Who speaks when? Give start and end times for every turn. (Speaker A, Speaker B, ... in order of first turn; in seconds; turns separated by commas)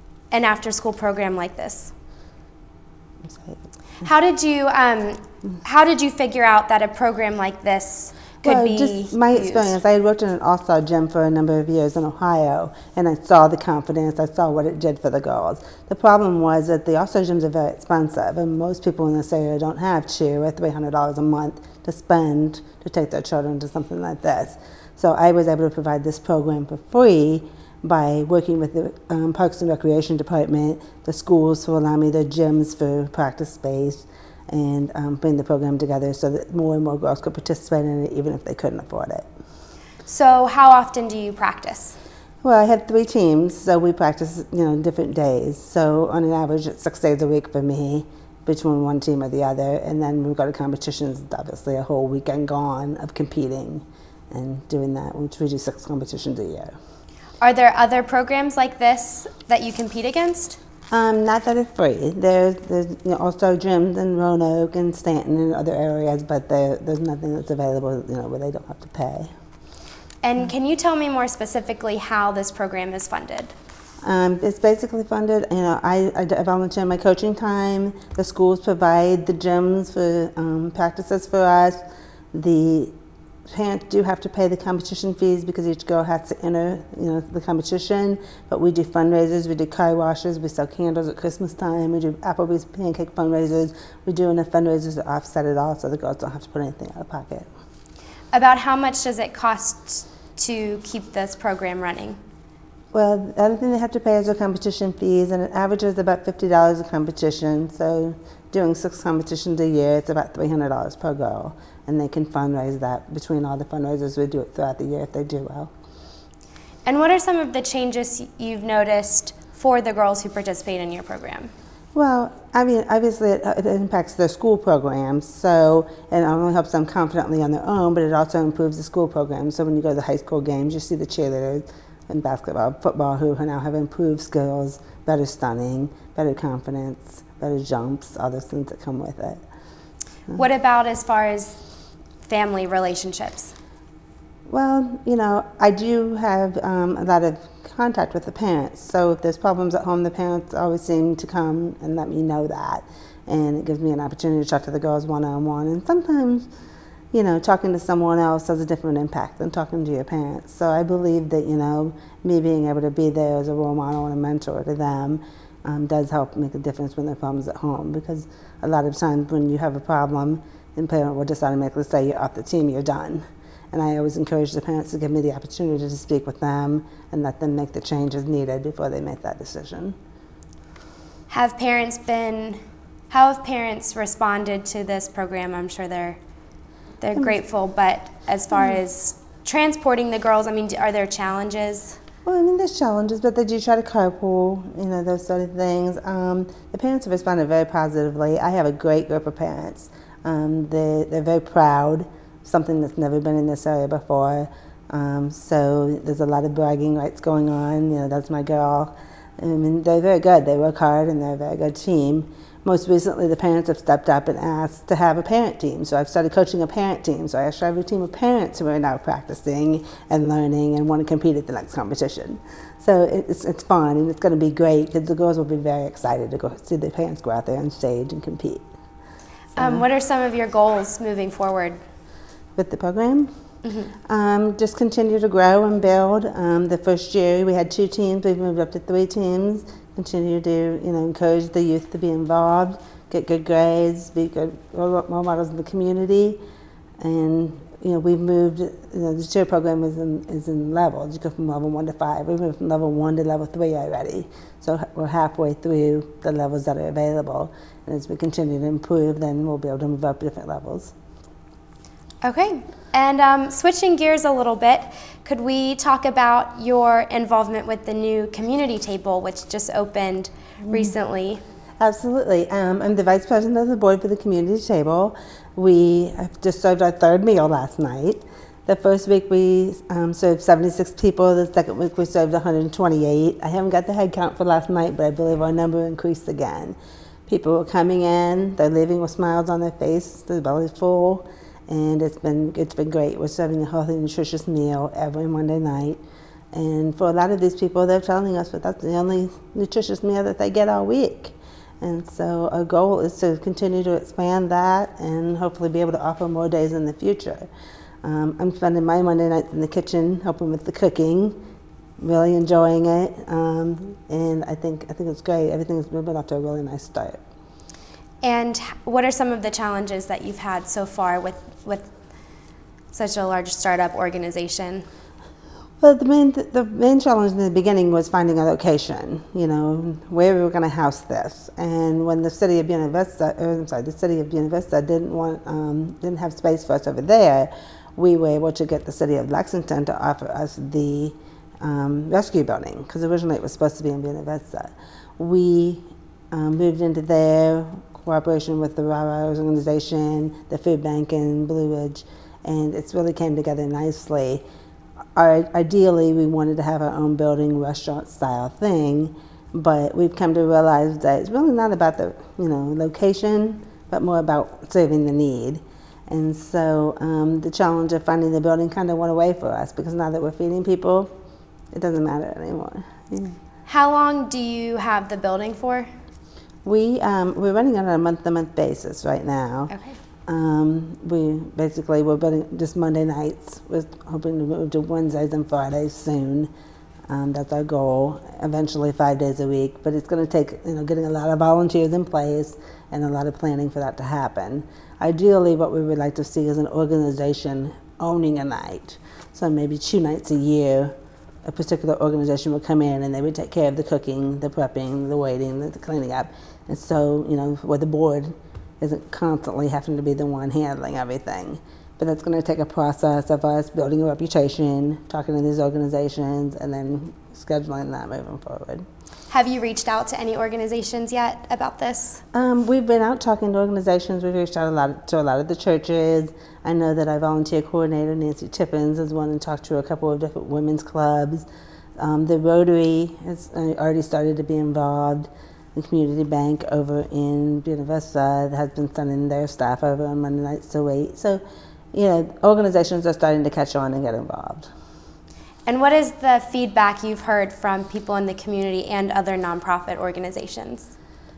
Speaker A: 0.3-1.9, Speaker B: 3.2-3.6, Speaker A: 4.0-9.8, Speaker B: 8.4-39.3, Speaker A: 40.0-42.0, Speaker B: 42.4-56.7, Speaker A: 57.4-60.6, Speaker B: 60.9-69.3, Speaker A: 70.2-73.5, Speaker B: 74.0-81.8, Speaker B: 82.3-82.9, Speaker B: 83.5-97.5, Speaker A: 98.3-102.2, Speaker B: 102.9-115.7, Speaker A: 116.8-121.5, Speaker B: 121.9-139.4, Speaker A: 140.3-141.6, Speaker A: 142.3-143.5, Speaker B: 144.5-156.5, Speaker B: 157.1-179.9, Speaker A: 181.3-186.2, Speaker A: 187.0-192.0, Speaker B: 192.2-228.7, Speaker B: 229.6-229.8, Speaker A: 229.6-231.8, Speaker B: 232.6-233.3, Speaker A: 233.6-233.9, Speaker B: 234.1-246.4, Speaker B: 247.0-260.9, Speaker A: 262.2-271.4, Speaker B: 270.6-270.9, Speaker B: 271.8-286.8, Speaker B: 287.3-296.0, Speaker B: 296.5-307.5, Speaker B: 308.0-311.4, Speaker B: 312.0-317.2, Speaker A: 318.2-321.9, Speaker A: 322.9-324.8, Speaker B: 325.8-354.4, Speaker B: 355.1-371.1, Speaker B: 371.7-373.4, Speaker A: 373.7-375.9, Speaker B: 376.6-379.7, Speaker A: 379.7-380.0, Speaker B: 380.3-386.5, Speaker B: 387.1-400.9, Speaker B: 401.4-418.9, Speaker A: 419.3-422.2, Speaker B: 422.3-431.4, Speaker B: 432.0-441.4, Speaker B: 441.9-444.7, Speaker A: 445.6-450.9